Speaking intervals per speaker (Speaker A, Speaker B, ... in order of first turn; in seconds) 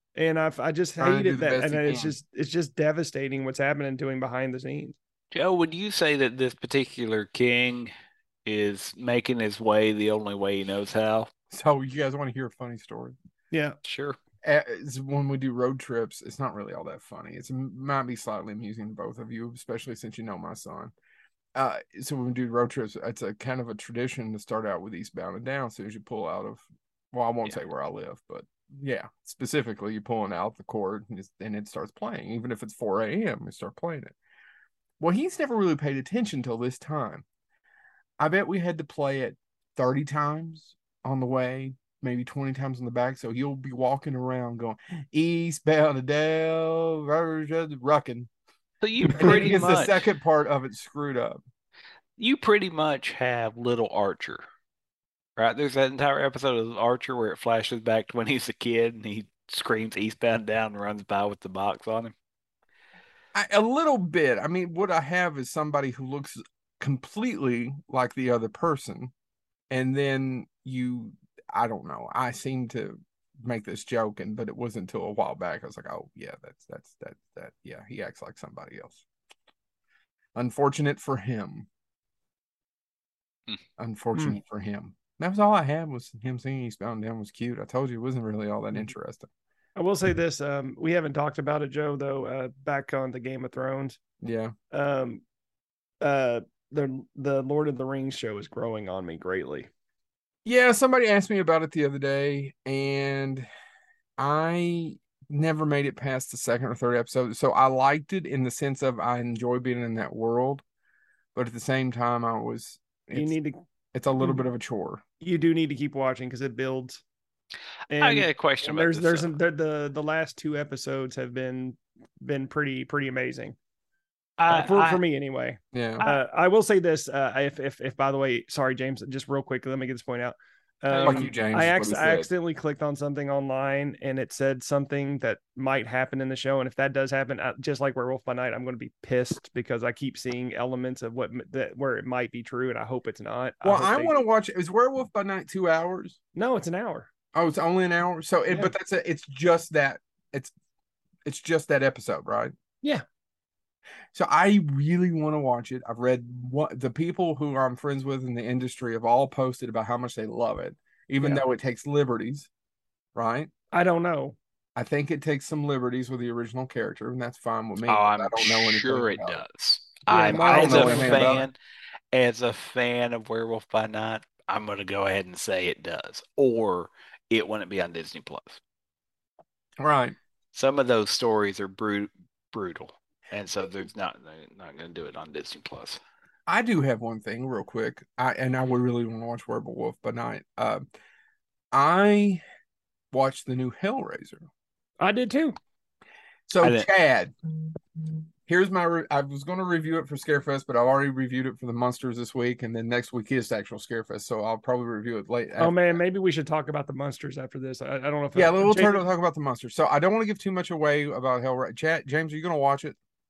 Speaker A: 0.1-5.0, 13.5-13.8, 49.0-49.7, 89.8-94.0, 94.7-95.2, 96.0-99.7, 113.1-113.5, 115.2-117.0, 117.9-123.5, 124.5-144.2, 146.3-147.1, 163.7-164.3, 170.1-171.4, 195.0-195.6, 205.6-209.0
Speaker B: 1.0-2.1, 11.5-13.2, 14.4-20.9, 21.5-34.1, 35.0-37.2, 38.2-48.3, 49.1-51.4, 63.3-69.1, 69.7-79.0, 80.3-81.7, 83.8-89.3, 94.2-94.5, 100.4-103.5, 104.2-110.6, 111.3-113.3, 113.9-115.0, 125.7-126.0, 131.0-132.3, 143.6-146.2, 147.3-150.5, 151.2-152.5, 154.1-162.5, 163.1-163.5, 164.8-169.4, 170.2-171.4, 179.8-180.2, 186.5-190.8, 191.7-192.4, 193.1-194.4, 196.5-197.3, 198.5-206.0, 208.3-212.9
Speaker C: 5.3-7.9, 8.4-11.3, 13.8-14.2, 48.8-50.1, 52.2-54.4, 55.4-62.1, 118.0-119.3, 124.4-125.0, 130.9-131.3, 167.9-171.6, 172.1-178.6, 180.5-186.0, 196.6-196.9